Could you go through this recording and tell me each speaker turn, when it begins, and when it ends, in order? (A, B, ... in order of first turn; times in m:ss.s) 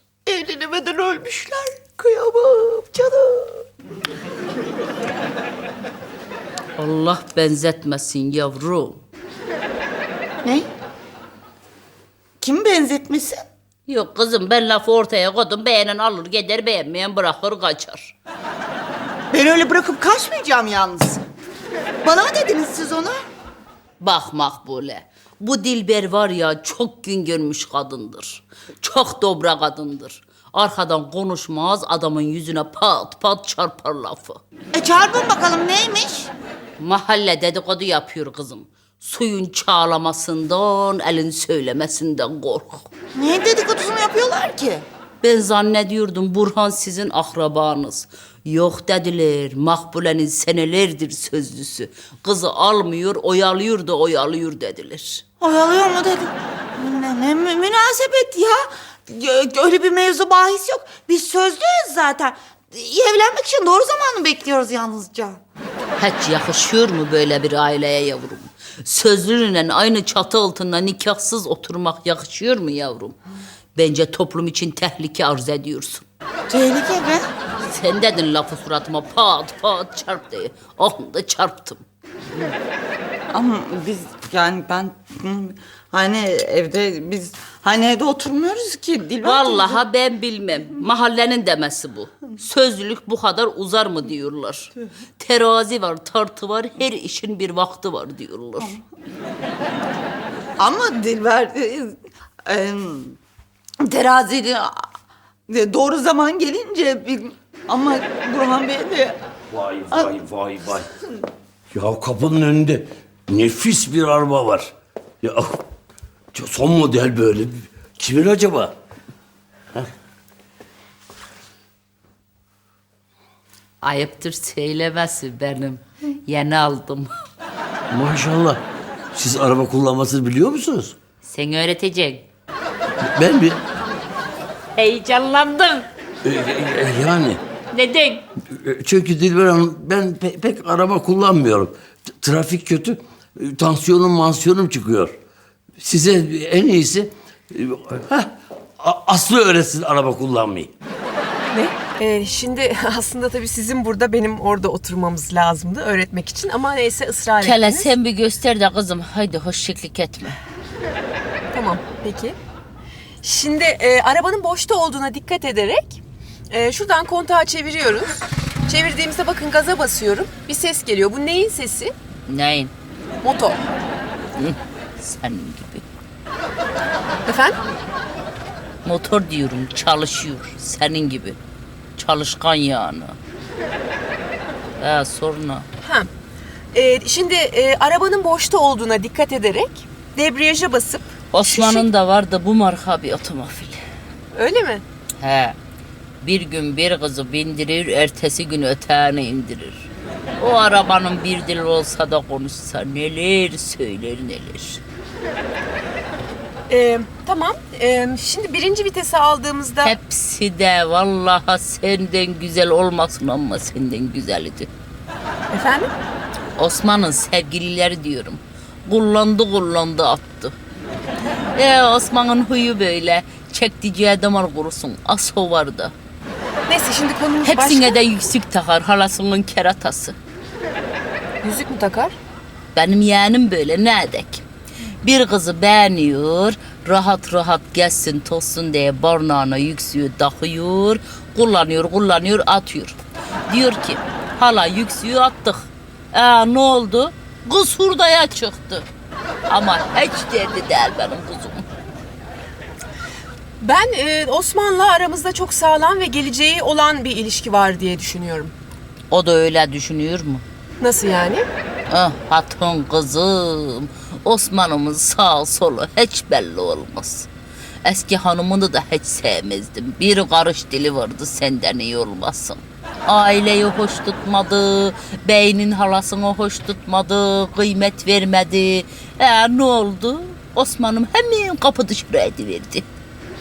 0:00.2-0:03.6 A
0:06.8-0:09.0 B
0:12.4-0:13.4 A
0:13.9-0:18.1 B
0:19.3-0:21.2 A
0:22.0-0:23.3 A
0:24.0-0:34.4 B
0:34.7-0:36.3 A
0:36.8-0:42.9 B
0:43.2-0:44.8 A
0:45.2-0:55.2 B
0:55.4-1:05.4 A
1:06.0-1:13.1 B
1:13.7-1:16.0 B
1:16.5-1:17.3 A
1:17.6-1:21.8 B
1:23.3-1:29.8 A
1:29.2-1:38.8 B
1:40.6-1:43.2 A
1:43.8-1:44.7 A
1:45.5-1:49.2 A
1:49.5-1:50.9 C
1:51.7-1:55.6 C
1:56.3-1:58.7 C
2:03.8-2:07.1 B
2:07.9-2:10.9 C
2:11.2-2:12.2 B
2:13.0-2:13.6 C
2:14.8-2:15.9 B
2:16.2-2:17.4 C
2:17.7-2:18.2 B
2:18.5-2:25.1 C
2:25.8-2:30.7 C
2:31.5-2:37.9 D
2:37.4-2:40.4 B
2:41.5-2:42.4 D
2:43.2-2:48.1 D
2:48.7-2:51.9 D
2:52.3-2:52.7 B
2:53.2-2:53.6 D
2:54.4-2:55.8 B
2:57.2-2:57.6 D
2:58.8-3:01.4 B
3:02.0-3:03.2 B
3:04.8-3:05.6 B
3:05.8-3:06.1 D
3:06.7-3:11.8 D
3:11.3-3:13.8 B
3:14.3-3:14.8 D
3:15.2-3:15.6 B
3:16.2-3:24.8 B
3:26.7-3:29.9 D
3:29.8-3:34.7 B
3:35.5-3:35.9 D
3:36.6-3:40.5 B
3:41.6-3:45.9 B
3:46.7-3:48.0 D
3:47.4-3:50.2 B
3:51.4-3:52.1 D
3:52.7-3:54.4 B
3:55.0-4:03.0 B
4:03.5-4:08.9 B
4:09.5-4:11.6 B
4:13.6-4:18.5 D
4:19.1-4:20.4 B
4:20.8-4:21.4 D
4:21.9-4:27.3 B
4:27.8-4:42.8 B